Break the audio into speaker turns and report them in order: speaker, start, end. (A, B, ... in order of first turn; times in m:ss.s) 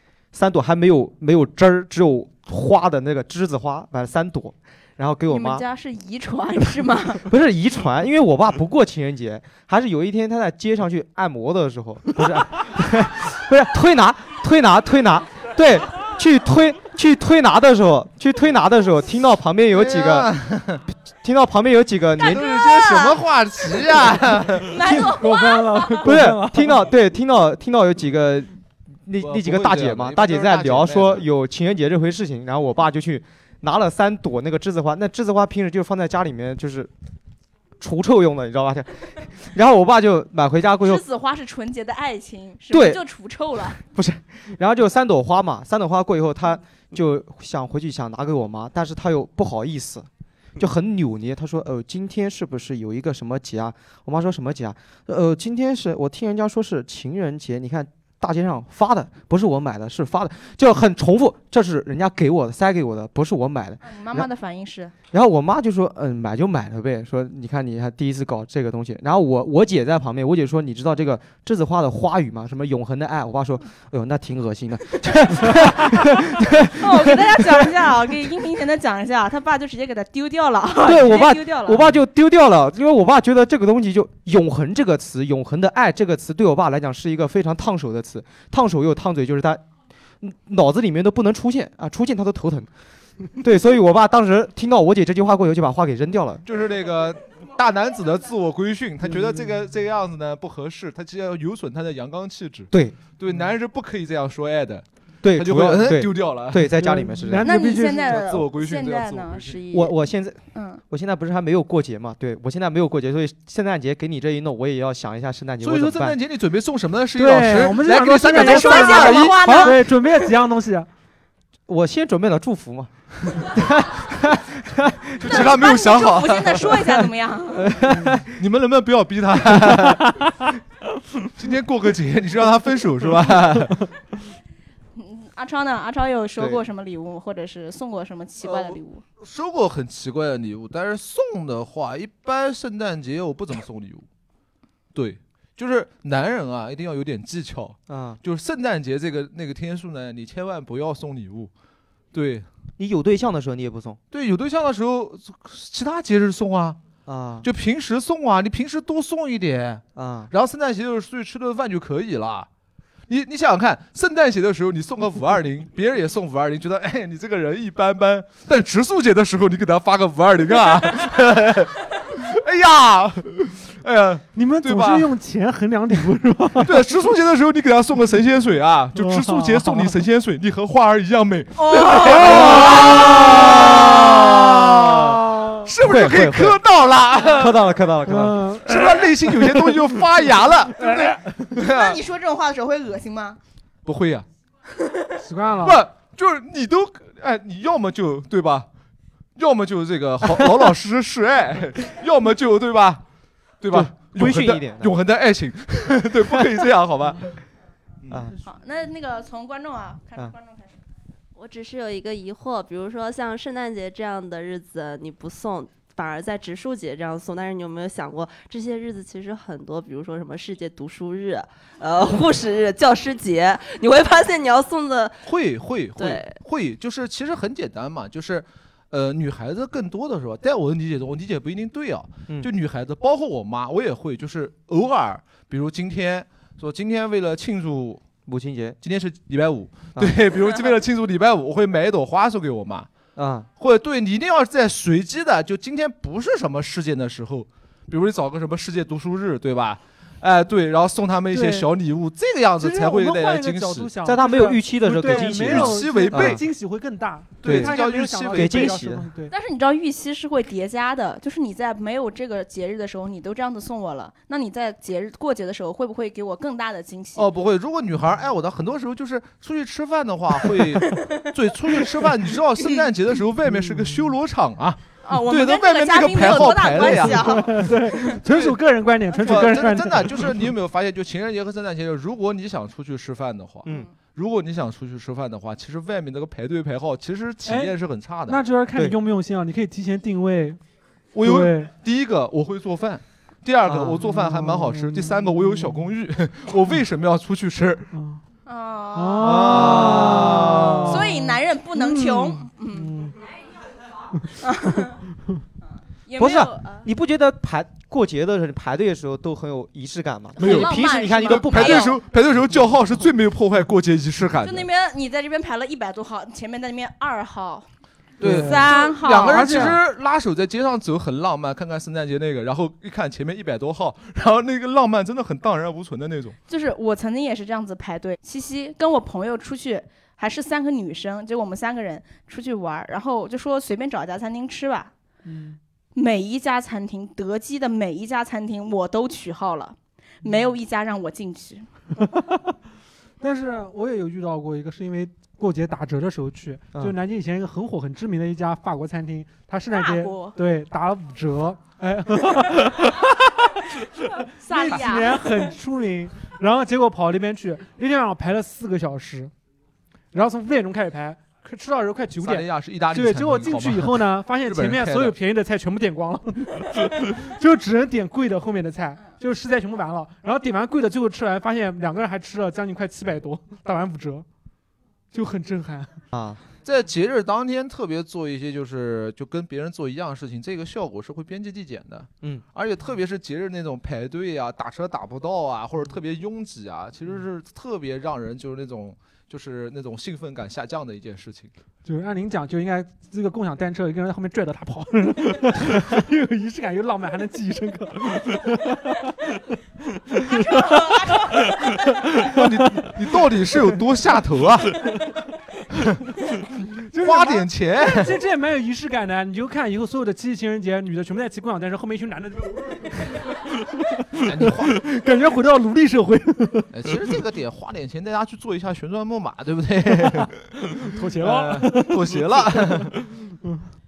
0:00.3-0:05.6 A
0:05.3-0:07.3 B
0:07.3-0:20.3 A
0:19.7-0:20.8 C
0:21.2-0:22.5 A
0:22.2-0:23.2 B
0:22.2-0:24.8 C
0:24.6-0:26.1 B
0:24.8-0:26.7 D
0:26.0-0:28.5 A
0:29.1-0:36.9 A
0:29.2-0:31.3 C
0:37.8-0:41.0 A
0:40.8-0:43.8 B
0:42.7-0:43.0 A
0:43.8-1:04.3 A
1:03.8-1:04.9 B
1:05.1-1:17.6 A
1:16.8-1:21.9 B
1:20.8-1:29.6 A
1:30.2-1:32.7 A
1:33.4-1:36.4 A
1:36.4-1:46.7 C
1:42.7-1:43.0 A
1:45.2-1:47.5 A
1:46.7-1:48.2 D
1:47.4-1:50.0 B
1:48.0-1:49.6 C
1:49.7-1:56.2 A
1:50.5-1:50.8 B
1:55.6-1:59.8 C
1:57.2-2:00.9 D
1:58.3-1:59.8 B
2:01.7-2:05.5 A
2:05.2-2:06.8 C
2:05.2-2:07.7 B
2:07.5-2:08.3 A
2:08.4-2:10.2 C
2:11.4-2:13.8 C
2:15.0-2:19.0 B
2:16.4-2:16.6 A
2:18.4-2:24.0 C
2:25.0-2:31.5 C
2:27.9-2:28.2 A
2:32.1-2:32.5 C
2:32.8-2:34.0 A
2:34.1-2:36.8 C
2:37.1-2:37.5 A
2:37.4-2:42.5 C
2:40.0-2:40.3 A
2:43.1-2:55.1 C
2:54.4-2:56.9 D
2:56.6-3:07.6 C
2:59.0-3:00.0 D
3:01.6-3:03.1 B
3:05.2-3:05.7 D
3:05.8-3:06.6 A
3:07.2-3:08.5 A
3:08.1-3:09.7 D
3:08.6-3:12.0 C
3:10.8-3:11.4 D
3:11.6-3:13.4 B
3:13.9-3:14.3 C
3:15.2-3:15.8 D
3:15.6-3:18.7 C
3:19.4-3:23.0 C
3:23.6-3:27.4 C
3:23.7-3:24.9 A
3:28.1-3:28.3 A
3:28.4-3:30.8 B
3:31.4-3:45.3 E
3:45.2-3:58.0 C
3:46.0-3:46.4 E
3:58.3-3:58.8 A
3:58.8-4:02.9 C
4:03.2-4:03.5 A
4:03.6-4:13.9 C
4:11.3-4:11.7 D
4:12.6-4:19.3 D
4:14.0-4:16.4 A
4:15.1-4:16.4 C
4:17.4-4:18.7 C
4:17.4-4:17.8 A
4:18.3-4:19.1 A
4:19.3-4:27.3 B
4:27.2-4:37.5 C
4:33.5-4:34.1 D
4:35.0-4:38.0 B
4:37.1-4:40.4 D
4:38.1-4:38.6 C
4:39.1-4:48.4 C
4:47.4-4:47.8 D
4:48.3-4:50.6 D
4:51.1-4:57.9 C
4:51.2-4:51.7 D
4:53.7-4:54.1 A
4:54.1-4:55.9 D
4:57.9-4:58.2 D
4:58.5-4:59.6 B
4:58.9-5:03.2 D
4:59.2-5:01.0 C
4:59.7-5:00.4 A
5:00.9-5:02.9 B
5:04.4-5:04.9 B
5:06.0-5:06.9 B
5:06.2-5:11.9 A
5:10.4-5:12.0 B
5:10.4-5:14.7 C
5:14.4-5:17.7 B
5:18.2-5:26.4 C
5:18.2-5:19.8 D
5:18.3-5:19.7 B
5:26.5-5:34.9 B
5:35.2-5:35.6 D
5:36.0-5:41.7 B
5:40.2-5:40.5 D
5:42.0-5:42.4 D
5:43.2-5:59.3 D
5:49.7-5:50.4 B
5:54.4-5:55.2 B
6:00.1-6:14.3 D
6:02.2-6:05.2 C
6:15.1-6:16.0 D
6:16.1-6:16.4 A
6:16.6-6:31.5 C
6:31.8-6:39.4 D
6:40.1-6:43.8 D
6:42.2-6:44.9 C
6:46.6-6:53.3 D
6:47.0-6:48.2 C
6:53.9-6:56.7 D
6:54.2-6:54.8 C
6:56.7-7:00.5 C
6:59.9-7:03.7 D
7:01.2-7:03.0 C